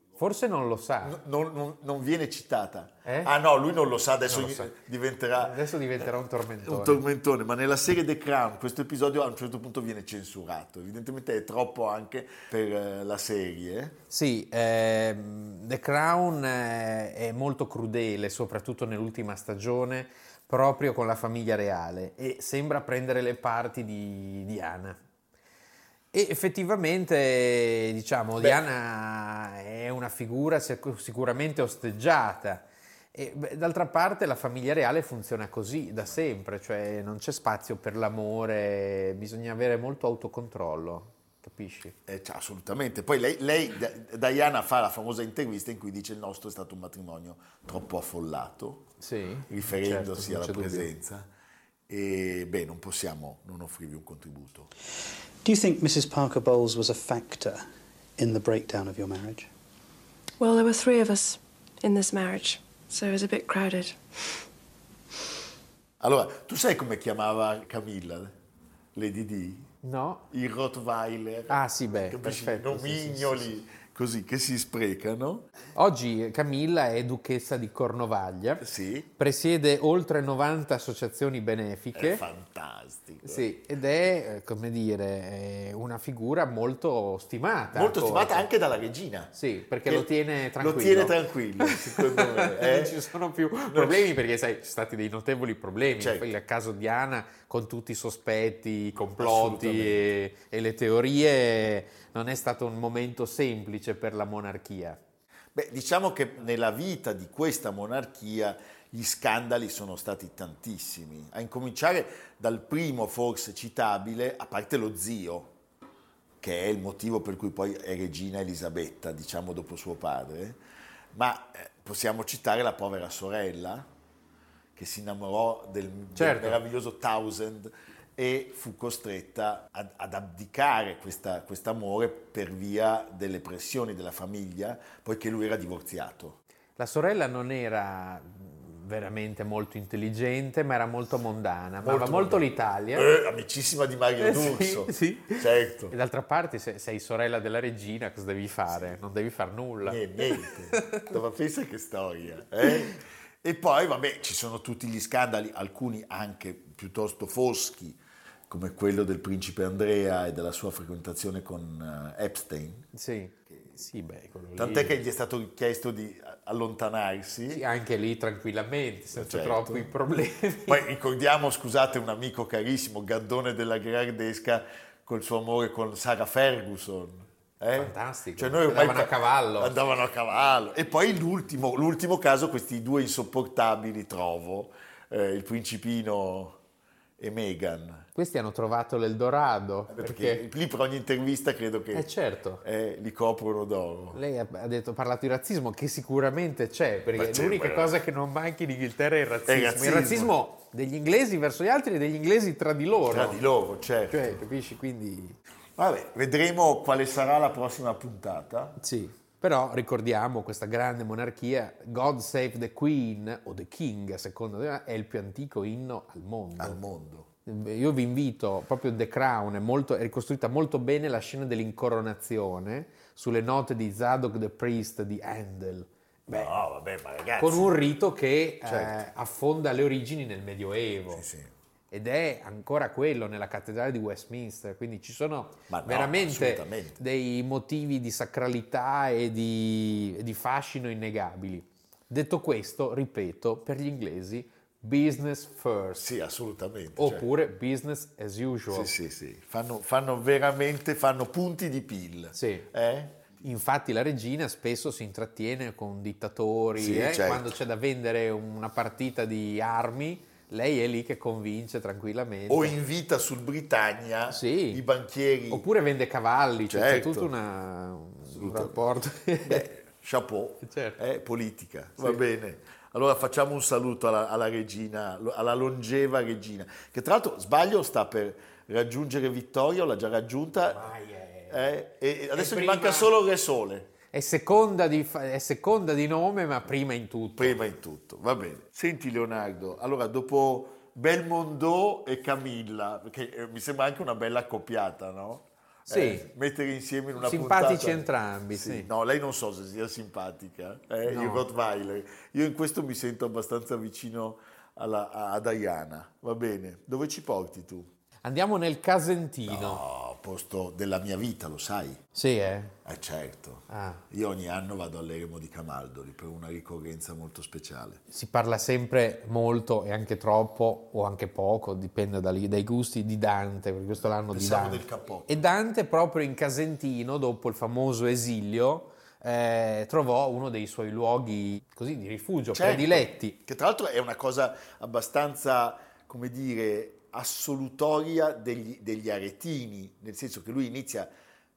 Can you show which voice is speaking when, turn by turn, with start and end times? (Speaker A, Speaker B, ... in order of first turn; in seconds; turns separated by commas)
Speaker A: 0.2-1.2, Speaker B: 1.0-5.6, Speaker A: 3.0-3.3, Speaker A: 4.3-4.7, Speaker A: 5.3-7.0, Speaker B: 6.6-14.0, Speaker A: 14.1-25.0, Speaker A: 26.1-41.9, Speaker B: 42.1-48.9, Speaker A: 49.0-50.9, Speaker B: 49.5-51.3, Speaker B: 51.9-54.7, Speaker C: 55.4-57.7, Speaker C: 58.2-59.5, Speaker D: 60.4-64.0, Speaker B: 66.0-68.3, Speaker B: 68.9-69.7, Speaker A: 69.8-70.2, Speaker B: 70.3-75.5, Speaker A: 71.5-73.4, Speaker A: 75.7-78.6, Speaker B: 78.6-79.1, Speaker A: 79.2-82.2, Speaker B: 81.9-83.5, Speaker A: 83.2-88.5, Speaker B: 87.7-89.3, Speaker A: 89.3-105.0, Speaker B: 89.8-93.0, Speaker B: 93.7-94.2, Speaker B: 96.0-96.3, Speaker B: 99.2-100.1, Speaker B: 105.5-115.5, Speaker B: 116.4-120.6, Speaker B: 121.1-123.9, Speaker B: 124.7-136.4, Speaker A: 126.2-126.6, Speaker A: 136.8-143.1, Speaker B: 141.8-145.9, Speaker A: 144.2-151.1, Speaker B: 148.7-148.9, Speaker B: 149.8-162.8, Speaker A: 162.9-165.0, Speaker B: 164.6-167.6, Speaker A: 167.5-170.8, Speaker B: 169.1-169.9, Speaker B: 170.7-186.6, Speaker A: 177.7-179.8, Speaker B: 187.2-188.1, Speaker A: 188.1-190.4, Speaker B: 189.9-192.1, Speaker A: 191.9-192.6, Speaker B: 192.6-194.2, Speaker A: 194.1-203.4, Speaker B: 197.1-198.0, Speaker B: 199.5-200.3, Speaker B: 203.1-204.4, Speaker A: 204.1-205.4, Speaker B: 205.8-208.8, Speaker A: 208.8-216.8, Speaker B: 216.6-217.3, Speaker A: 217.4-226.6, Speaker B: 226.3-227.8, Speaker A: 227.4-231.2, Speaker B: 228.6-229.0, Speaker B: 231.1-231.5, Speaker A: 231.9-246.0, Speaker B: 235.7-237.0, Speaker B: 245.9-247.3, Speaker A: 247.0-248.9, Speaker B: 248.7-253.2, Speaker A: 252.3-252.7, Speaker A: 253.4-262.8, Speaker B: 256.8-257.5, Speaker B: 262.5-265.7, Speaker A: 264.3-264.8, Speaker A: 265.5-269.7, Speaker B: 266.7-267.3, Speaker B: 268.3-268.8, Speaker B: 269.4-280.9, Speaker A: 270.6-271.0, Speaker A: 280.6-281.7, Speaker B: 281.5-283.9, Speaker A: 282.3-283.1, Speaker A: 284.1-287.6, Speaker B: 287.4-307.9, Speaker A: 295.9-296.3, Speaker A: 297.2-298.9, Speaker A: 301.0-301.4, Speaker A: 308.2-309.8, Speaker B: 309.4-312.0, Speaker A: 312.1-312.7, Speaker B: 312.8-318.0, Speaker A: 313.7-314.0, Speaker A: 318.1-333.4, Speaker B: 324.3-325.3, Speaker B: 332.5-341.1